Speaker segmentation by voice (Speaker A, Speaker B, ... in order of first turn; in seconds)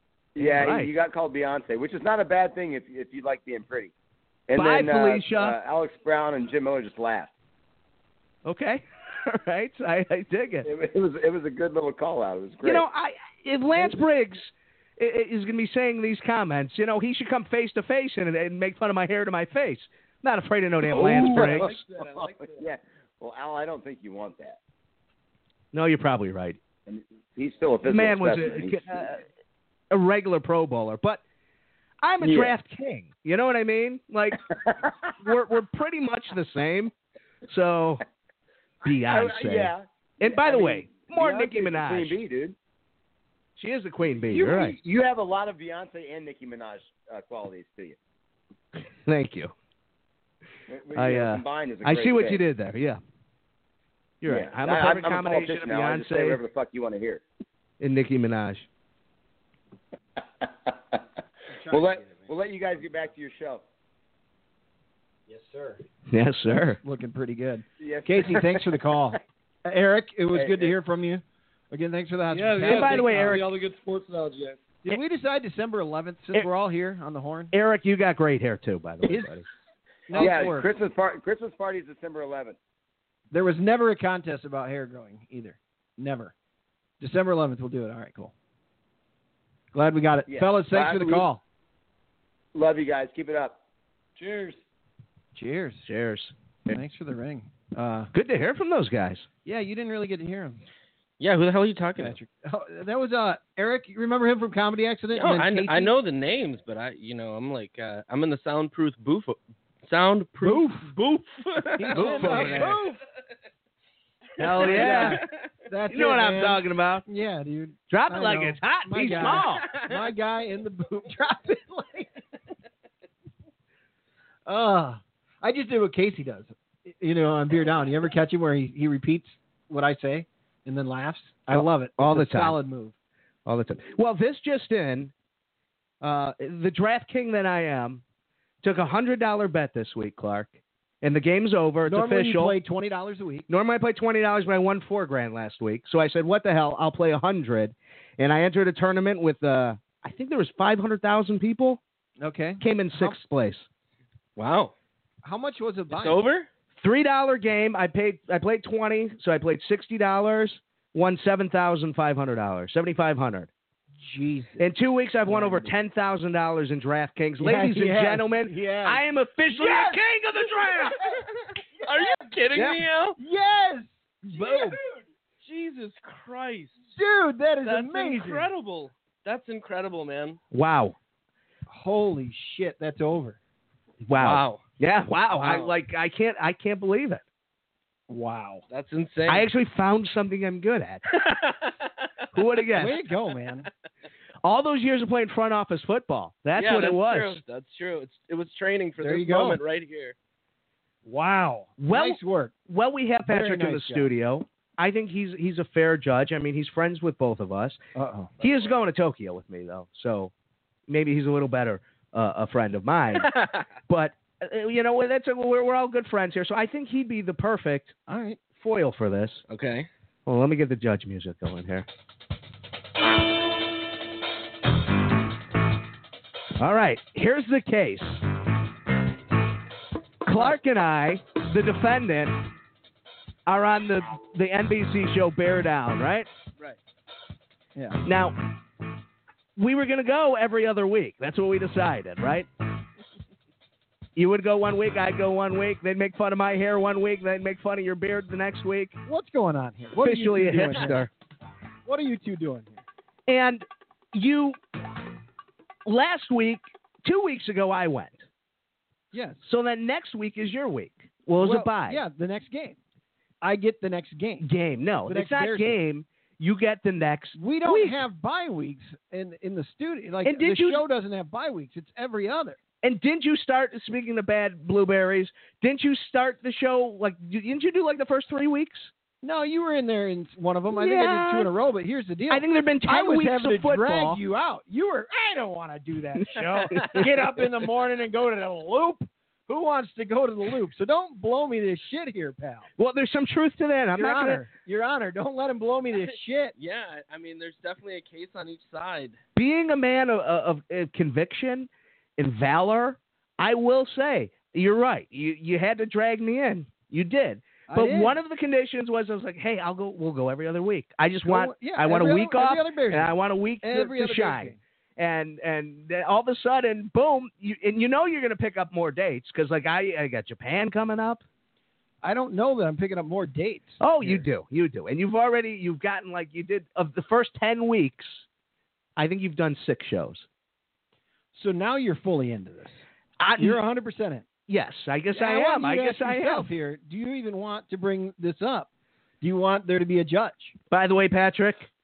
Speaker A: 0.3-3.9, 4.5-7.3, 10.7-12.9, 20.8-24.6, 26.9-29.1, 32.2-32.6, 38.9-42.5, 44.1-48.0, 50.7-52.4, 54.2-57.2, 60.7-61.0, 61.7-63.6, 67.8-68.8, 70.3-70.7, 80.1-82.6, 90.3-91.3, 92.5-93.6
Speaker B: 0.4-0.9, 4.6-5.6, 8.4-10.7, 12.6-21.8, 25.7-26.6, 27.9-29.2, 29.9-31.2, 32.0-34.5, 35.2-36.9, 37.5-38.0, 38.8-42.2, 43.6-44.8, 49.0-49.5, 51.0-53.0, 54.2-56.4, 57.8-58.7, 66.1-66.8, 72.6-73.5, 77.5-79.5, 95.9-96.8, 98.1-99.3, 111.9-112.8, 114.4-115.2, 115.9-117.0, 117.9-119.8, 131.5-132.6, 133.5-135.1, 136.0-138.0, 138.6-142.6, 143.5-151.8, 152.6-153.7, 156.8-163.5, 164.6-171.0, 172.5-172.8, 180.5-181.0, 184.1-187.2, 189.3-191.0, 192.3-193.0, 194.4-197.4, 201.8-207.8, 208.4-210.3, 210.9-217.9, 218.6-219.4, 220.3-221.9, 226.6-228.2, 230.2-232.5, 233.5-236.3, 238.1-238.4, 239.6-242.5, 244.2-249.0, 250.0-251.1, 253.3-254.6, 255.8-258.2, 259.4-262.0, 264.4-268.0, 270.2-270.8, 272.8-278.9, 280.7-281.5, 282.3-284.2, 286.2-287.1, 292.8-294.4, 299.4-321.2, 323.8-328.2, 329.0-330.3, 333.2-333.6, 334.5-336.5, 340.7-341.7
Speaker C: 21.2-22.6, 72.3-74.8, 94.2-94.6
Speaker D: 61.5-62.3, 65.3-65.8, 66.8-73.4, 74.8-77.5, 79.1-79.4, 80.1-80.7, 83.3-86.3, 87.0-88.3, 89.7-91.4, 95.3-95.9, 96.7-98.1, 99.5-100.6, 102.0-105.9, 110.4-110.9, 111.8-113.0, 114.4-122.2, 124.5-132.9, 141.8-143.5, 152.2-153.2, 155.2-156.2, 164.0-164.7, 165.3-165.8, 167.4-170.0, 173.2-174.8, 176.9-178.5, 181.7-183.4, 188.1-188.6, 192.8-193.7, 199.0-199.6, 201.1-202.5, 203.3-204.1, 207.9-208.3, 218.1-218.4, 237.8-238.1, 249.1-251.1, 251.8-252.8, 259.1-259.4, 261.4-262.8, 263.4-264.5, 265.1-265.8, 267.4-272.6, 279.2-292.7, 293.9-296.5, 307.7-308.2, 311.2-314.6, 322.0-324.3, 331.4-332.8, 333.4-334.3, 335.1-338.7, 339.2-340.6
Speaker E: 101.2-102.2, 105.1-112.8, 114.5-115.3, 119.2-119.9, 154.4-154.7, 155.9-156.5, 171.8-173.2, 174.3-176.9, 177.6-180.4, 184.2-184.6, 185.3-185.7, 188.7-189.5, 191.1-192.1, 196.6-200.2, 213.2-213.7, 219.5-219.9, 286.7-287.1, 296.6-299.2